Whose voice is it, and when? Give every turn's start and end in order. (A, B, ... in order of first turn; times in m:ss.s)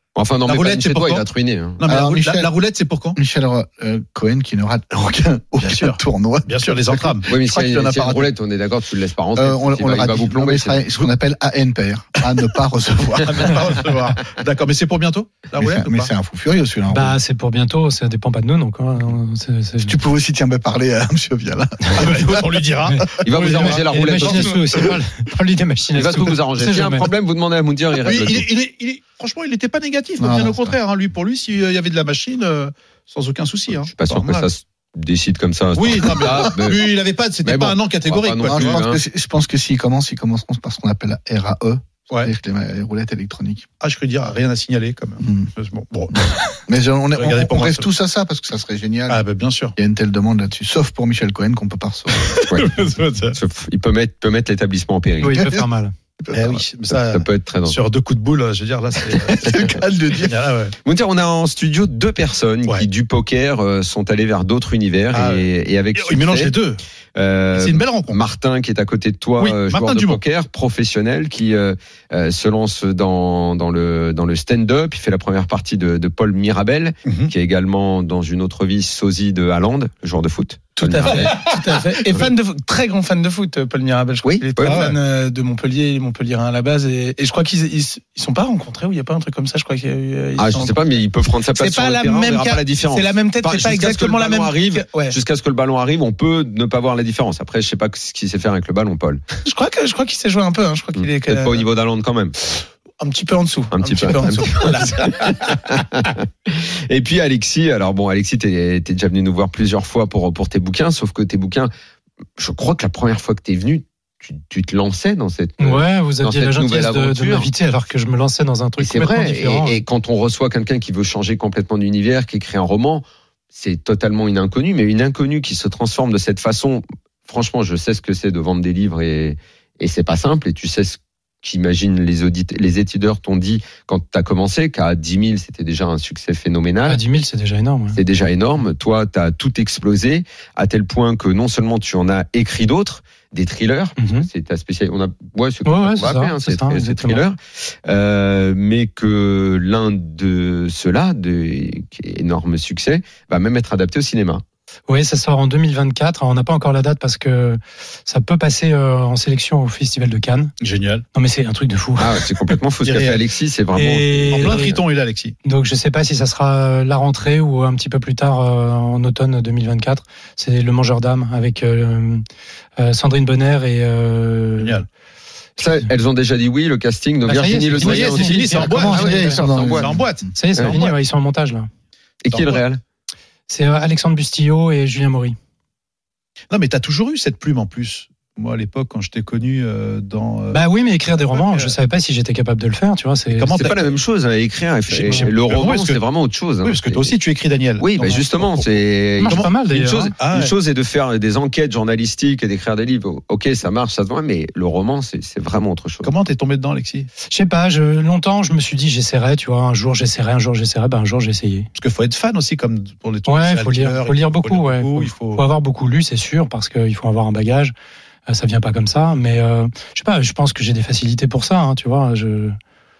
0:00.2-0:01.8 A
0:00.4-0:01.2 B
0:01.8-0:03.2 B
0:01.8-0:02.5 C
0:03.1-0:08.3 C
0:05.6-0:07.3 B
0:07.3-0:10.9 A
0:09.4-0:13.8 C
0:13.2-0:16.1 B
0:15.6-0:17.2 C
0:16.9-0:19.9 D
0:19.8-0:22.6 C
0:22.0-0:24.6 B
0:22.9-0:27.1 D
0:23.2-0:24.6 A
0:25.9-0:28.5 A
0:28.0-0:34.5 B
0:30.2-0:30.7 C
0:33.9-0:39.0 A
0:35.7-0:38.8 B
0:38.4-0:43.6 C
0:43.8-0:46.4 B
0:45.2-0:45.5 C
0:46.7-0:49.2 C
0:47.2-0:47.9 B
0:49.1-0:49.7 B
0:49.8-0:52.4 C
0:52.2-0:53.4 B
0:53.3-0:55.6 A
0:55.2-0:55.9 D
0:56.2-0:56.6 C
0:56.3-1:00.7 B
0:56.9-0:57.8 A
0:59.3-1:00.4 C
1:00.8-1:06.5 A
1:05.1-1:06.8 B
1:07.1-1:21.5 A
1:07.5-1:08.2 B
1:09.4-1:10.2 B
1:17.1-1:17.3 B
1:20.8-1:30.8 E
1:21.1-1:21.5 B
1:24.2-1:24.8 A
1:24.6-1:25.0 B
1:30.4-1:39.2 A
1:31.5-1:35.2 E
1:39.4-1:41.6 E
1:41.0-1:42.4 A
1:43.0-1:45.4 E
1:43.7-1:51.7 A
1:52.4-1:57.5 A
1:55.6-1:59.8 D
1:58.8-2:17.0 A
2:16.9-2:18.0 D
2:17.9-2:34.4 A
2:24.0-2:24.3 D
2:25.6-2:27.2 D
2:34.9-2:40.5 D
2:40.6-2:41.0 B
2:41.1-2:42.2 D
2:42.0-2:44.8 A
2:42.8-2:43.2 B
2:43.7-2:44.8 D
2:44.3-2:45.4 B
2:45.4-2:52.2 D
2:52.8-2:54.8 D
2:54.6-2:54.8 B
2:55.6-2:59.9 A
2:55.6-2:55.9 D
2:57.2-2:59.4 D
2:57.8-3:01.0 B
2:58.6-3:00.3 C
3:00.3-3:01.7 D
3:02.2-3:02.8 A
3:02.3-3:02.6 B
3:03.5-3:05.4 D
3:06.5-3:10.6 B
3:10.5-3:13.6 D
3:11.4-3:11.7 B
3:13.3-3:14.0 B
3:13.6-3:17.1 A
3:14.9-3:16.0 B
3:16.6-3:19.6 B
3:17.8-3:26.1 A
3:19.2-3:20.1 D
3:20.2-3:20.5 B
3:26.0-3:27.1 B
3:27.3-3:31.7 D
3:31.7-3:35.4 B
3:33.3-3:37.7 D
3:38.3-3:42.6 D